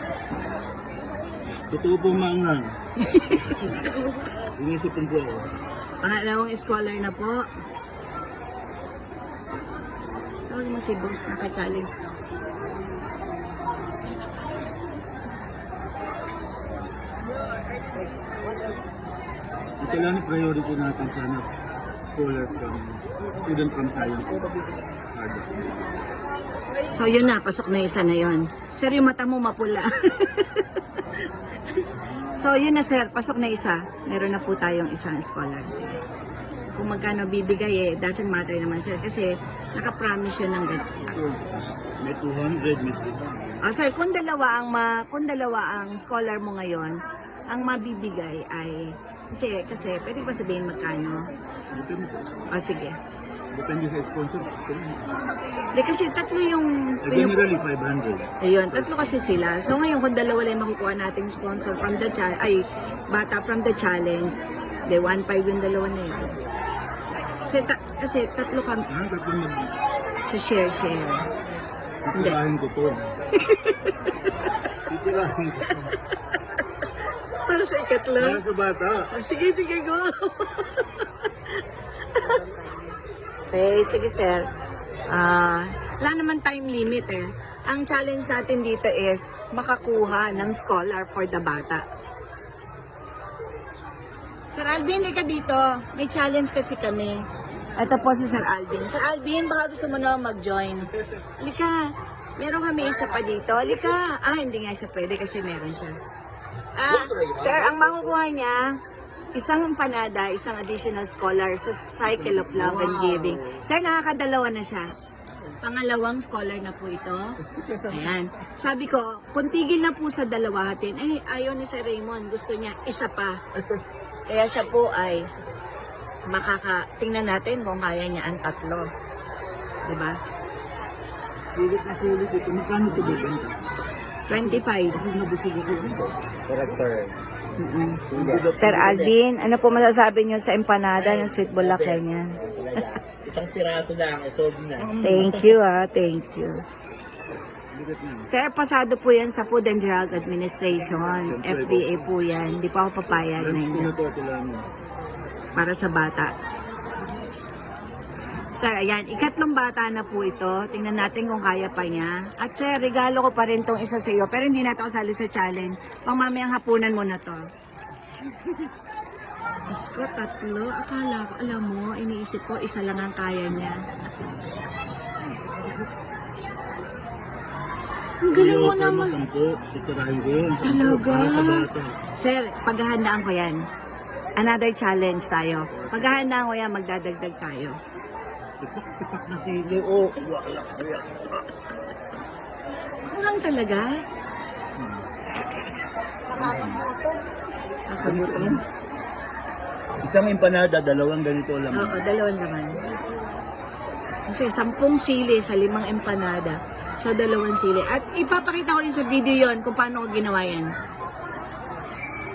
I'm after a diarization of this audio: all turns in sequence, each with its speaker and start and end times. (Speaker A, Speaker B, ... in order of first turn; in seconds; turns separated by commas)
Speaker A: 1.7-2.8, Speaker B: 3.0-4.2, Speaker A: 4.4-5.5, Speaker B: 6.0-7.5, Speaker B: 10.5-11.9, Speaker A: 19.8-21.5, Speaker A: 22.0-25.9, Speaker B: 26.8-31.2, Speaker B: 32.4-36.0, Speaker B: 36.7-41.5, Speaker A: 41.1-43.6, Speaker B: 43.6-51.3, Speaker A: 51.7-52.5, Speaker B: 52.5-53.0, Speaker A: 53.5-55.1, Speaker B: 55.7-57.4, Speaker A: 57.0-59.4, Speaker B: 58.4-66.4, Speaker B: 67.5-68.9, Speaker A: 68.9-69.8, Speaker B: 70.3-71.3, Speaker A: 72.0-73.1, Speaker B: 72.2-72.4, Speaker B: 73.3-74.3, Speaker A: 74.9-76.0, Speaker B: 77.5-78.4, Speaker A: 78.2-79.1, Speaker B: 79.1-81.3, Speaker B: 82.0-82.9, Speaker B: 83.5-84.5, Speaker B: 85.1-91.9, Speaker B: 94.5-97.3, Speaker B: 97.8-101.8, Speaker B: 102.4-106.0, Speaker B: 106.8-108.8, Speaker C: 107.0-108.1, Speaker B: 109.3-114.9, Speaker A: 112.0-113.7, Speaker B: 115.6-123.4, Speaker A: 117.6-118.0, Speaker B: 124.3-125.3, Speaker B: 126.3-128.9, Speaker B: 129.9-130.2, Speaker A: 131.5-133.6, Speaker B: 134.3-135.0, Speaker A: 134.3-136.2, Speaker C: 136.5-137.2, Speaker B: 137.6-138.1, Speaker C: 138.1-139.2, Speaker A: 138.1-139.0, Speaker B: 138.6-142.8, Speaker C: 140.9-145.6, Speaker A: 144.8-145.4, Speaker B: 145.0-146.6, Speaker A: 147.7-148.3, Speaker B: 148.3-153.9, Speaker A: 150.9-152.1, Speaker A: 153.3-154.7, Speaker B: 155.6-156.3, Speaker B: 158.6-167.5, Speaker B: 169.7-173.8, Speaker B: 178.2-179.2, Speaker A: 178.3-182.0, Speaker B: 180.6-183.6, Speaker B: 184.4-187.8, Speaker A: 185.7-186.3, Speaker A: 188.6-191.3, Speaker B: 193.1-193.9, Speaker A: 194.8-195.1, Speaker B: 195.3-195.7, Speaker A: 196.3-196.9, Speaker B: 197.9-198.6, Speaker A: 198.0-198.6, Speaker A: 200.0-202.0, Speaker B: 201.7-202.8, Speaker B: 204.3-210.7